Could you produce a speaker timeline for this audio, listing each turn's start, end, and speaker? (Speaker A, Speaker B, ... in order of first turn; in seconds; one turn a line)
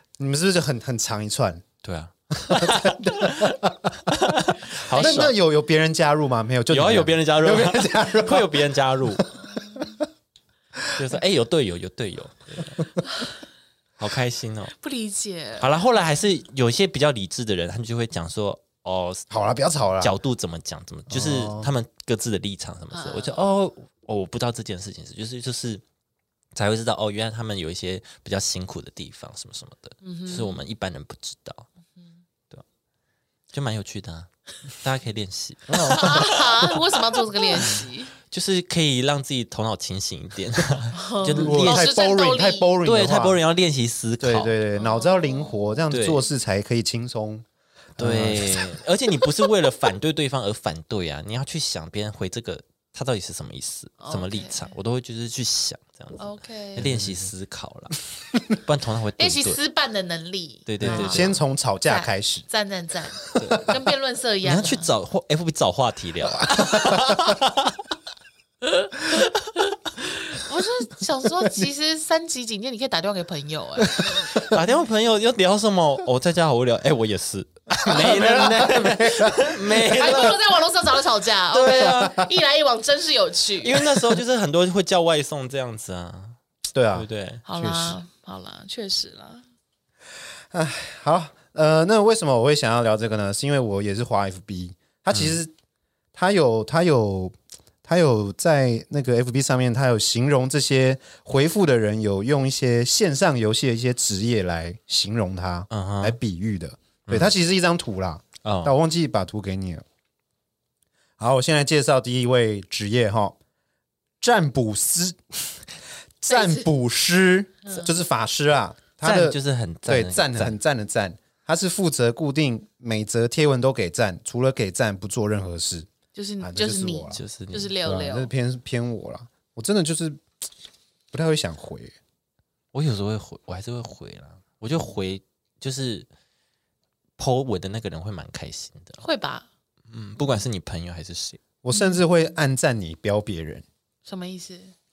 Speaker A: 0.2-1.6
Speaker B: 1.8-5.3
Speaker A: 2.5-3.9
Speaker A: 4.9-8.6
Speaker C: 5.0-5.3
Speaker B: 6.7-9.2
Speaker A: 9.2-9.9
Speaker C: 9.6-9.9
Speaker B: 10.9-12.9
Speaker B: 14.0-14.7
Speaker C: 14.8-15.7
Speaker B: 15.6-19.3
Speaker A: 19.3-20.1
Speaker B: 20.0-25.8
Speaker A: 21.1-21.7
Speaker C: 22.9-23.4
Speaker B: 26.6-31.7
Speaker C: 30.0-30.6
Speaker B: 33.5-36.9
Speaker A: 35.7-36.3
Speaker C: 35.9-38.1
Speaker B: 37.6-41.9
Speaker C: 40.9-42.7
Speaker A: 41.4-43.4
Speaker B: 42.8-44.6
Speaker A: 44.2-47.5
Speaker C: 44.8-45.8
Speaker B: 45.9-46.2
Speaker A: 48.0-48.8
Speaker B: 48.0-58.0
Speaker C: 54.0-54.7
Speaker C: 56.2-56.9
Speaker A: 56.8-57.3
Speaker B: 58.5-59.6
Speaker C: 59.2-61.3
Speaker B: 60.7-61.4
Speaker A: 60.8-62.5
Speaker C: 61.9-64.9
Speaker B: 63.4-63.7
Speaker A: 63.5-63.8
Speaker B: 64.4-67.8
Speaker A: 66.6-67.2
Speaker C: 70.0-74.1
Speaker A: 73.9-74.5
Speaker B: 74.4-80.4
Speaker A: 77.8-80.3
Speaker C: 79.9-83.9
Speaker B: 81.5-82.3
Speaker A: 81.8-82.2
Speaker B: 83.6-86.4
Speaker A: 86.7-88.0
Speaker B: 86.9-87.4
Speaker C: 87.5-89.5
Speaker A: 90.5-95.5
Speaker B: 95.1-95.4
Speaker A: 96.1-109.8
Speaker B: 105.7-106.2
Speaker B: 107.1-107.3
Speaker B: 108.4-108.8
Speaker A: 111.2-113.4
Speaker A: 114.2-115.6
Speaker A: 116.2-125.9
Speaker C: 116.3-116.7
Speaker C: 117.7-117.9
Speaker B: 119.0-120.6
Speaker C: 126.2-128.3
Speaker A: 126.4-127.2
Speaker B: 127.1-127.8
Speaker A: 127.8-130.2
Speaker A: 131.1-131.9
Speaker B: 132.7-136.1
Speaker B: 137.2-139.0
Speaker C: 139.0-139.5
Speaker B: 139.9-141.4
Speaker A: 141.6-143.7
Speaker C: 141.7-142.1
Speaker C: 144.1-144.7